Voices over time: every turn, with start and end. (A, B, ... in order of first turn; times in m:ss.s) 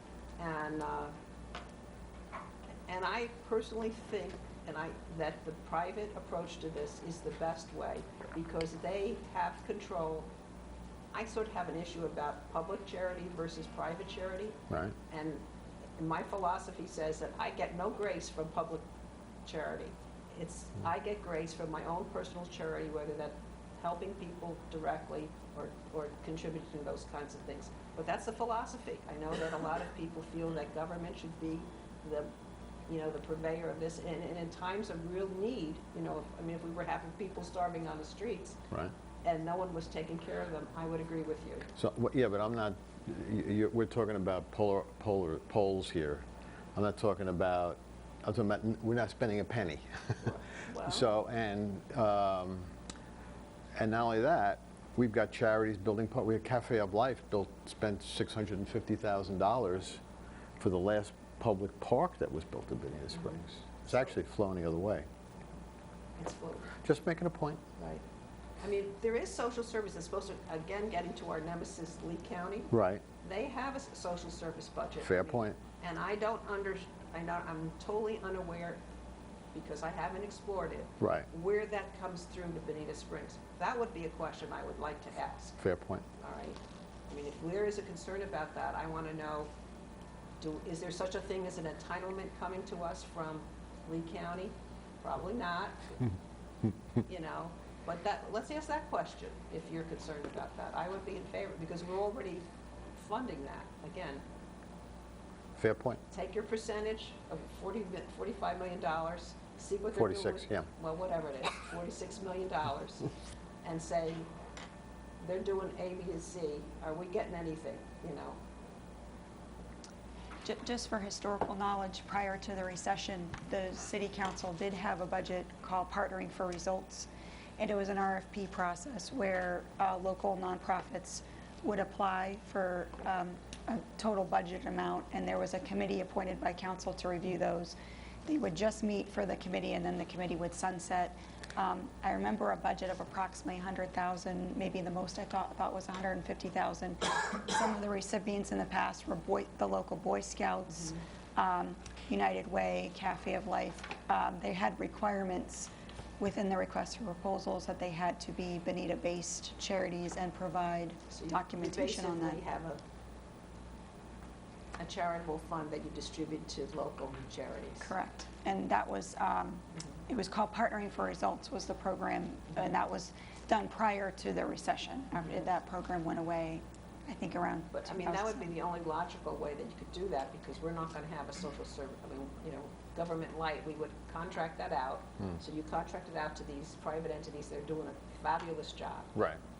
0:00.4-0:01.1 A
0:02.9-0:10.3 A
0:11.1-0:14.6 A
0:15.1-0:15.4 A
0:16.0-0:18.8 A
0:19.4-0:32.3 A
0:32.9-0:38.6 A
0:39.2-0:41.7 A
0:41.8-0:50.2 B
0:50.2-0:51.1 A
0:50.9-0:52.7 B
0:53.7-1:00.0 B
1:00.6-1:05.1 B
1:03.1-1:04.1 A
1:06.2-1:06.7 A
1:06.8-1:07.6 B
1:07.8-1:08.0 A
1:08.6-1:18.8 A
1:12.7-1:13.0 B
1:15.0-1:15.6 B
1:19.5-1:25.6 A
1:21.0-1:21.3 B
1:25.6-1:26.0 B
1:26.2-1:29.5 A
1:30.4-1:36.0 A
1:37.0-1:44.2 A
1:45.6-1:46.0 B
1:46.1-1:53.1 A
1:50.0-1:50.7 B
1:53.6-1:54.3 A
1:55.2-1:58.4 A
2:00.4-2:42.4 C
2:30.7-2:31.0 A
2:41.1-2:42.8 A
2:44.8-2:47.9 A
2:47.8-2:58.5 C
2:57.7-3:09.1 A